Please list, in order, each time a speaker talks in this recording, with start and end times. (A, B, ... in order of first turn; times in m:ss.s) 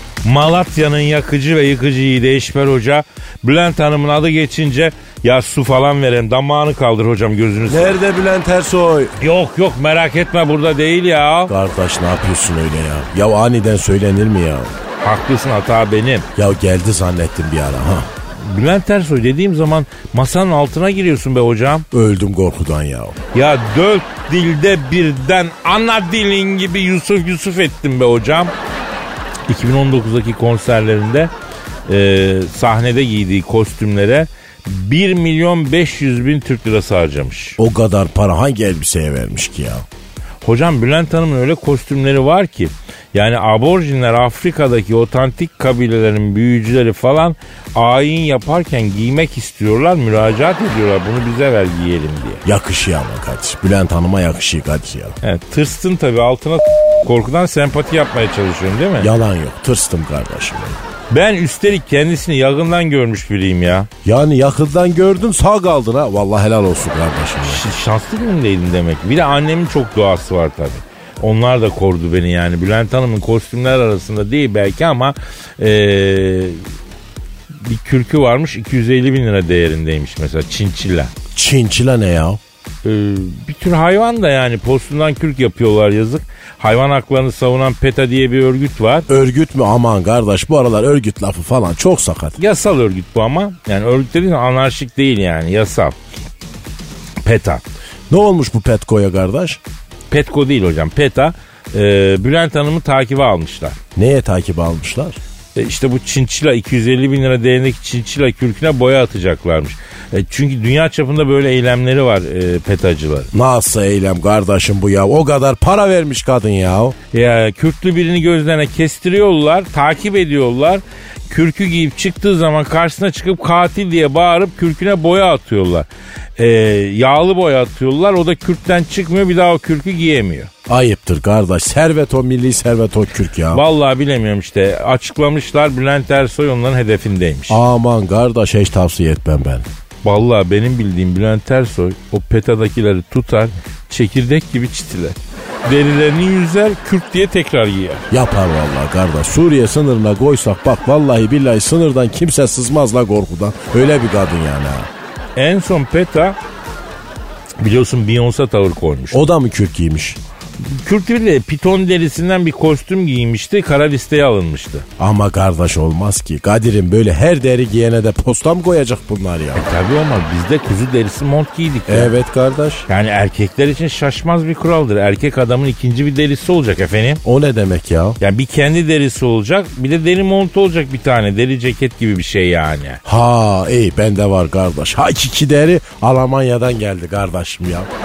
0:00.2-0:08.0 A
0:07.7-0:09.2 B
0:09.2-0:11.5 A
0:11.5-0:14.8 B
0:15.0-0:16.2 A
0:16.3-0:18.1 B
0:18.4-0:21.8 A
0:21.9-0:23.2 B
0:23.3-0:28.5 A
0:29.5-0:31.3 A
0:31.9-0:37.6 A
0:37.6-0:39.8 B
0:40.4-0:52.4 A
0:52.4-0:55.2 B
0:55.2-0:59.1 A
0:59.0-1:00.8 B
1:01.1-1:03.9 A
1:04.0-1:07.6 B
1:07.4-1:16.6 A
1:17.6-1:21.1 A
1:21.3-1:22.4 B
1:22.8-1:29.1 A
1:29.1-1:32.4 B
1:32.4-1:35.9 A
1:37.2-1:37.6 A
1:38.1-1:39.6 B
1:40.1-1:43.8 A
1:44.0-1:45.2 B
1:45.5-1:53.3 A
1:53.3-1:57.0 B
1:57.1-2:10.5 A
2:10.7-2:13.6 B
2:13.5-2:17.6 A
2:17.5-2:19.6 B
2:20.0-2:28.0 A
2:28.1-2:34.9 B
2:35.4-2:36.4 A
2:37.6-2:39.3 A
2:39.1-2:40.2 B
2:40.6-2:44.8 A
2:45.0-2:49.7 B
2:49.6-2:52.1 A
2:51.9-2:52.9 B
2:52.9-2:57.2 A
2:57.2-2:58.2 B
2:58.2-3:03.0 A
3:03.0-3:07.9 B